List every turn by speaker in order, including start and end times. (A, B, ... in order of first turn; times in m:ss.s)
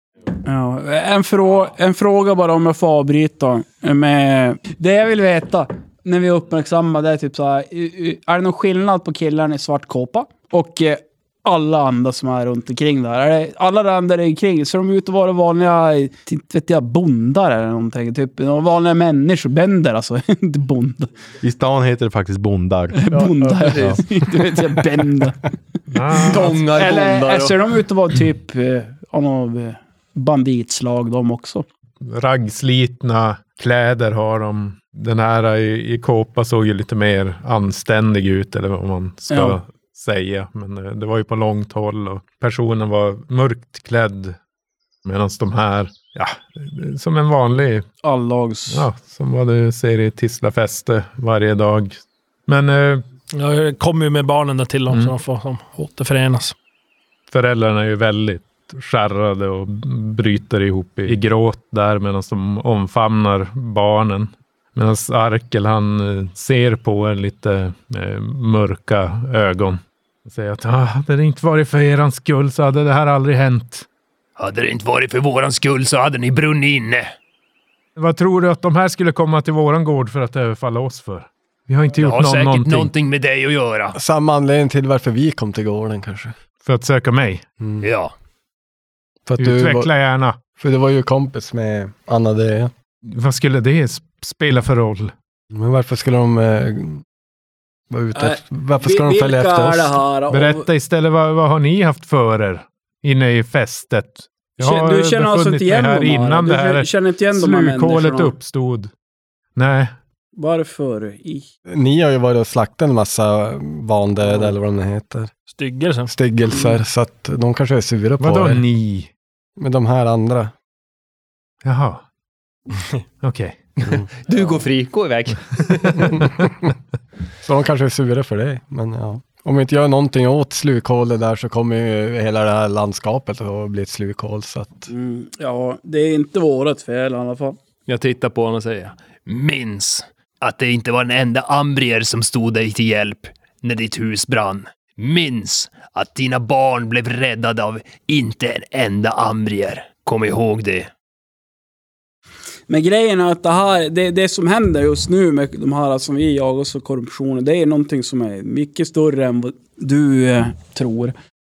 0:00.4-0:21.1 A
0:21.4-0:24.0 B
0:23.0-0:25.5 A
0:25.9-0:26.6 C
0:26.2-0:27.6 D
0:26.2-0:31.6 A
0:32.0-0:44.4 C
0:39.3-0:39.6 A
0:45.0-0:47.9 C
0:48.0-0:48.9 A
0:48.7-0:53.0 C
0:53.3-0:56.6 E
0:57.3-1:13.9 C
1:14.4-1:17.1 D
1:18.0-1:22.9 C
1:22.0-1:24.0 D
1:23.9-1:26.3 F
1:26.6-1:27.4 C
1:27.8-1:28.1 D
1:29.3-1:29.9 F
1:29.4-1:30.4 C
1:30.6-1:32.7 F
1:33.1-1:35.1 C
1:35.5-1:37.0 F
1:37.9-1:40.0 F
1:38.1-1:40.7 A
1:40.3-1:48.9 C
1:44.6-1:48.4 A
1:49.6-1:49.9 C
1:50.4-1:51.5 A
1:51.7-1:55.3 F
1:55.5-1:56.1 E
1:56.1-1:58.6 F
1:58.2-1:59.1 C
1:59.6-2:00.5 F
2:01.6-2:02.0 C
2:03.2-2:03.6 C
2:04.2-2:06.3 D
2:05.9-2:06.2 C
2:07.4-2:14.9 F
2:14.9-2:17.6 A
2:17.9-2:30.9 D
2:32.7-2:41.1 A